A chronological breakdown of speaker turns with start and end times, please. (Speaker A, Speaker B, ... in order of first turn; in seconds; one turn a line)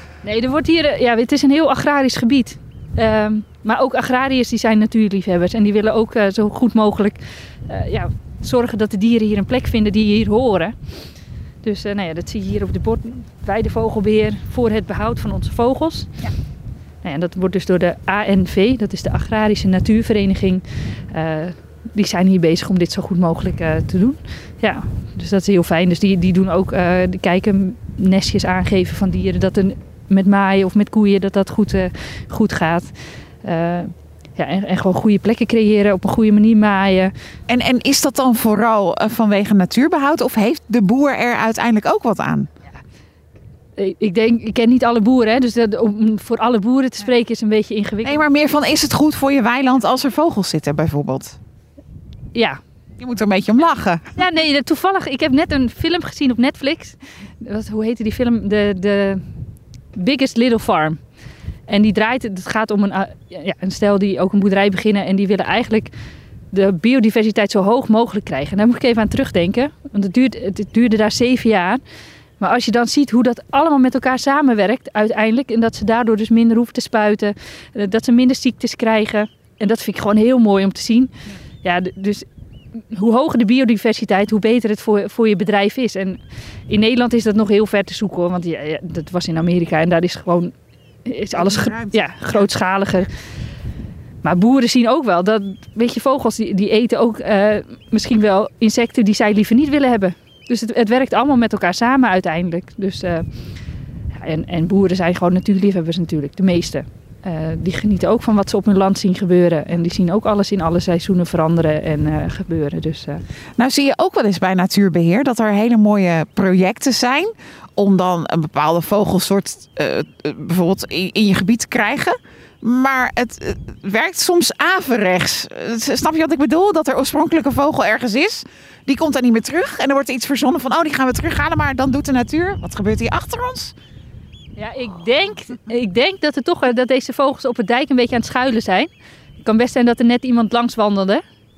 Speaker A: 0.2-10.8
Speaker A: 11.6-16.1
Speaker A: 17.0-37.1
Speaker B: 37.5-42.5
Speaker A: 43.8-48.2
Speaker B: 48.0-51.4
Speaker A: 52.3-52.6
Speaker B: 53.0-54.1
Speaker A: 54.1-59.2
Speaker A: 59.9-61.0
Speaker A: 61.7-65.9
Speaker A: 66.5-71.8
Speaker A: 72.4-82.3
Speaker A: 82.8-93.1
Speaker B: 91.3-92.5
Speaker A: 94.2-103.3
Speaker A: 104.2-113.2
Speaker B: 113.6-133.7
Speaker A: 134.6-138.9
Speaker A: 139.4-141.2